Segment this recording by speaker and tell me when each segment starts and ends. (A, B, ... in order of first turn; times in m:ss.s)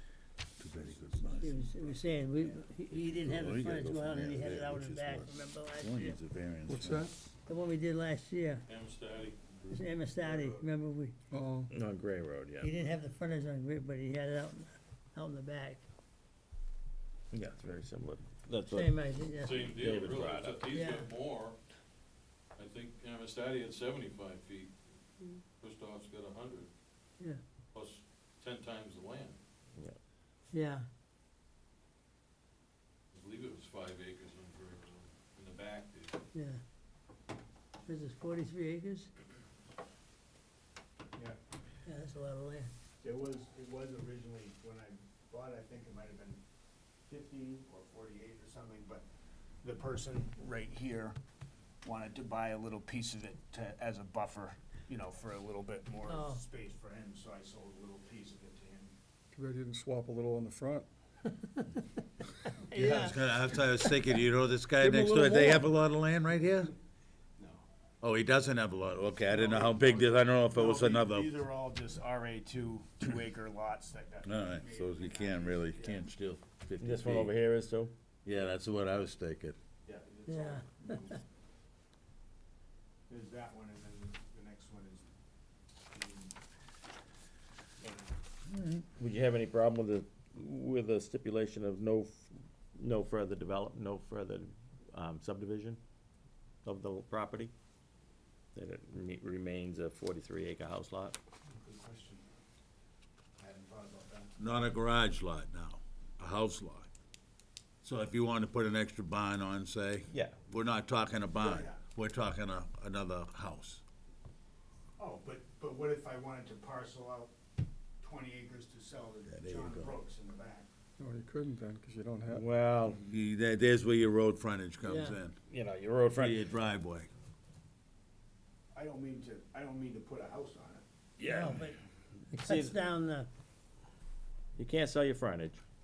0:00.6-0:01.8 A
0:01.3-0:06.2 B
0:03.0-0:07.1 A
0:06.7-0:07.1 C
0:07.5-0:08.7 B
0:08.7-0:09.7 D
0:09.7-0:11.2 B
0:10.2-0:10.5 D
0:11.3-0:11.7 C
0:11.7-0:12.7 E
0:12.6-0:15.8 B
0:17.3-0:19.1 E
0:18.7-0:19.9 B
0:19.4-0:21.6 D
0:19.6-0:20.8 E
0:20.7-0:21.1 B
0:22.6-0:26.7 D
0:27.7-0:29.4 D
0:30.5-0:30.8 B
0:33.1-0:36.2 D
0:36.3-0:36.6 B
0:37.9-0:39.1 B
0:41.9-0:42.7 B
0:43.0-0:46.4 F
0:47.1-0:49.0 F
0:49.6-0:51.2 F
0:51.8-0:58.9 F
0:56.1-0:56.4 B
0:59.3-1:00.9 C
1:02.6-1:04.0 B
1:02.7-1:06.7 A
1:04.8-1:05.6 B
1:05.1-1:05.5 C
1:07.4-1:07.6 F
1:08.0-1:11.3 A
1:09.3-1:16.0 F
1:14.2-1:17.4 A
1:16.8-1:17.9 E
1:18.2-1:19.6 A
1:19.8-1:21.2 F
1:20.3-1:21.1 B
1:23.1-1:25.1 F
1:25.9-1:26.4 F
1:27.8-1:28.2 F
1:28.5-1:28.8 A
1:29.0-1:35.8 E
1:36.6-1:37.5 E
1:38.6-1:41.2 E
1:41.5-1:42.3 F
1:43.4-1:44.4 F
1:44.4-1:46.9 A
1:47.8-1:53.8 A
1:50.1-1:50.4 E
1:51.4-1:51.8 F
1:55.0-1:57.3 F
1:58.0-2:00.7 F
1:59.3-1:59.9 A
2:01.0-2:02.5 C
2:02.3-2:03.0 E
2:02.9-2:05.4 A
2:04.8-2:05.2 B
2:05.5-2:06.4 E
2:06.2-2:07.1 A
2:08.7-2:10.8 F
2:11.2-2:11.7 E
2:11.2-2:11.8 B
2:12.2-2:12.9 E
2:12.3-2:13.3 B
2:14.6-2:15.6 E